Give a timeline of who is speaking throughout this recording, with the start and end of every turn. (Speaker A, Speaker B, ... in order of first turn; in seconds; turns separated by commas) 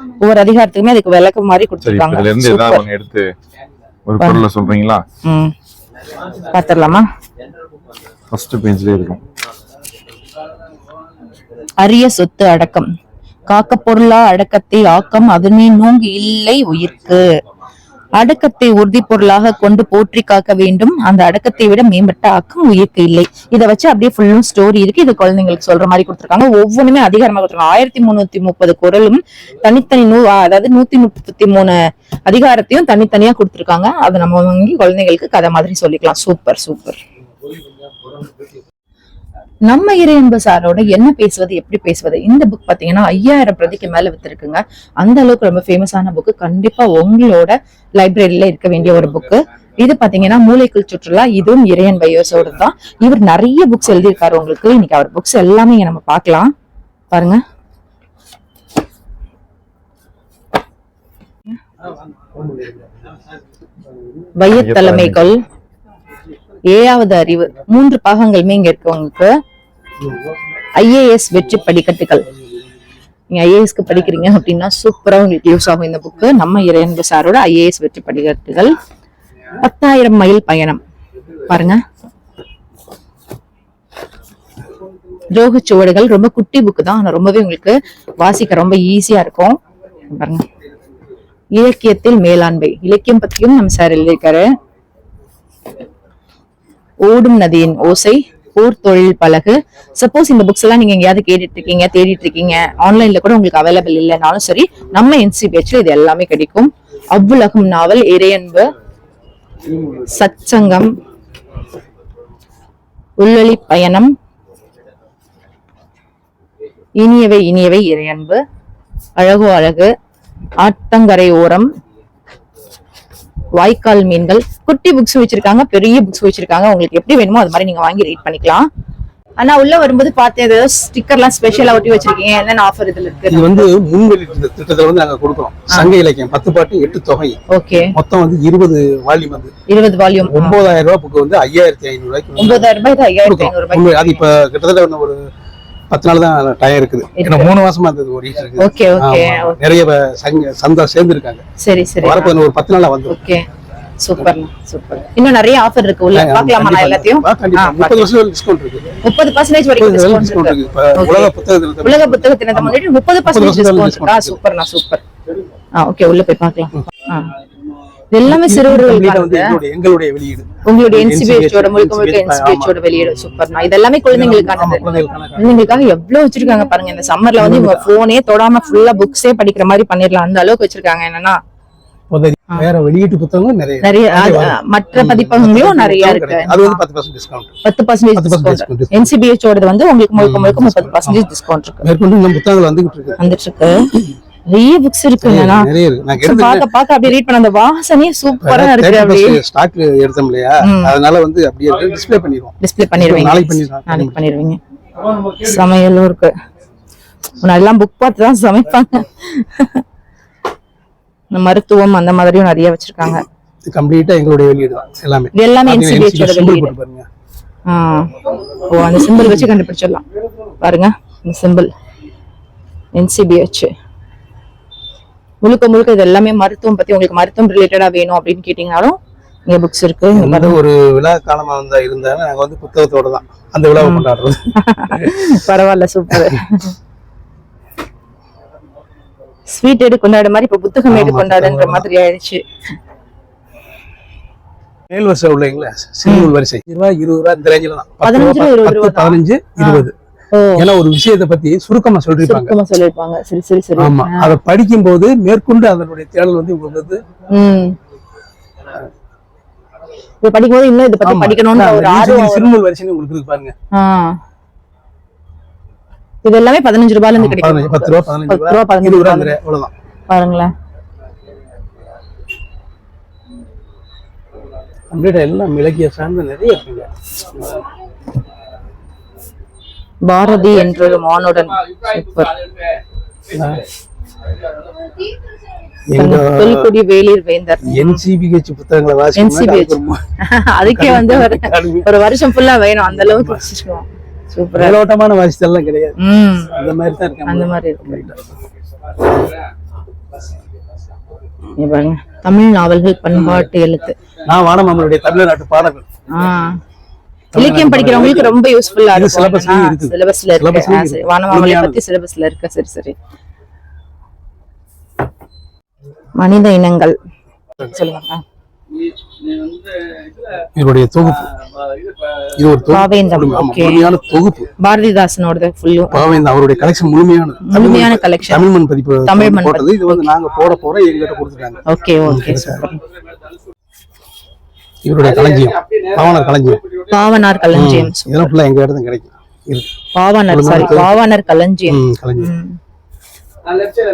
Speaker A: 0.2-2.9, Speaker B: 1.8-3.3, Speaker B: 4.1-5.0, Speaker A: 4.2-4.5, Speaker A: 5.3-5.5, Speaker A: 6.4-7.0, Speaker B: 8.3-9.2, Speaker A: 11.8-12.9, Speaker A: 13.5-17.2, Speaker A: 18.2-37.0, Speaker A: 39.7-56.5, Speaker A: 57.1-57.4, Speaker C: 62.4-62.8, Speaker A: 64.4-65.3, Speaker B: 64.5-65.3, Speaker A: 66.7-69.3, Speaker A: 70.8-72.2, Speaker A: 73.3-78.7, Speaker A: 79.6-80.8, Speaker A: 81.5-81.8, Speaker A: 85.3-89.6, Speaker A: 90.1-90.5, Speaker A: 91.6-94.5, Speaker A: 97.0-108.7, Speaker A: 110.0-110.9, Speaker A: 113.2-114.1, Speaker A: 117.0-118.4, Speaker A: 119.2-119.9, Speaker A: 120.6-121.7, Speaker A: 123.6-128.7, Speaker A: 129.4-133.7, Speaker C: 133.3-139.5, Speaker A: 137.5-137.9, Speaker A: 139.7-140.6, Speaker C: 140.2-142.7, Speaker A: 142.4-144.2, Speaker C: 143.2-145.3, Speaker C: 145.9-151.4, Speaker A: 147.2-147.5, Speaker A: 148.6-149.7, Speaker A: 151.6-152.3, Speaker C: 152.0-153.2, Speaker A: 153.1-153.5, Speaker A: 154.0-158.1, Speaker C: 156.1-158.9, Speaker A: 159.1-161.3, Speaker C: 159.8-164.4, Speaker A: 161.8-165.0, Speaker A: 165.8-167.3, Speaker A: 168.1-169.6, Speaker C: 168.2-173.4, Speaker A: 170.7-174.8, Speaker C: 174.1-175.9, Speaker A: 175.4-181.4, Speaker C: 177.3-177.9, Speaker C: 182.1-187.5, Speaker A: 183.8-186.8, Speaker A: 187.7-191.9, Speaker C: 188.2-189.1, Speaker C: 190.2-191.2, Speaker C: 191.8-193.2, Speaker A: 193.2-193.9, Speaker A: 194.5-199.4, Speaker C: 195.2-196.7, Speaker C: 198.4-204.2, Speaker A: 200.7-200.9, Speaker A: 202.6-204.6, Speaker A: 205.3-206.3, Speaker A: 207.4-209.8, Speaker A: 211.3-213.2, Speaker C: 213.7-217.1, Speaker A: 215.4-216.7, Speaker A: 217.7-220.0, Speaker C: 219.0-219.5, Speaker A: 220.6-221.7, Speaker A: 223.0-223.7, Speaker A: 225.4-229.0, Speaker A: 229.5-230.6, Speaker C: 230.1-235.3, Speaker A: 233.8-234.1, Speaker A: 234.7-236.7, Speaker A: 239.6-242.4, Speaker C: 240.9-241.9, Speaker C: 244.9-249.9, Speaker A: 246.1-246.3, Speaker A: 248.0-250.7, Speaker C: 250.6-252.6, Speaker A: 252.2-254.4, Speaker C: 253.8-257.0, Speaker A: 257.3-257.8, Speaker A: 260.2-262.5, Speaker C: 261.0-263.5, Speaker A: 263.7-264.1, Speaker A: 266.2-269.4, Speaker C: 267.1-269.7, Speaker A: 270.1-270.5, Speaker C: 274.9-277.6, Speaker A: 280.1-282.4, Speaker C: 283.3-283.6, Speaker C: 285.9-286.7, Speaker A: 286.0-288.0, Speaker C: 287.6-290.0, Speaker A: 289.1-294.8, Speaker C: 290.6-291.9, Speaker C: 292.9-293.4, Speaker C: 294.5-296.0, Speaker A: 296.0-296.6, Speaker C: 296.5-298.2, Speaker A: 297.3-298.1, Speaker A: 301.6-304.0, Speaker C: 303.1-303.5, Speaker C: 304.3-305.9, Speaker A: 306.1-306.6, Speaker C: 307.3-308.4, Speaker A: 307.4-312.9, Speaker C: 308.9-311.8, Speaker A: 316.2-316.9, Speaker A: 317.6-318.2, Speaker C: 320.5-321.3, Speaker C: 322.4-324.5, Speaker A: 322.7-323.9, Speaker A: 324.6-326.1, Speaker C: 325.9-332.7, Speaker A: 327.5-328.5, Speaker A: 329.1-330.0, Speaker A: 331.7-332.6, Speaker C: 334.9-336.6, Speaker A: 336.9-338.3, Speaker C: 337.5-339.7, Speaker A: 339.9-342.6, Speaker C: 340.3-340.9, Speaker C: 341.7-342.3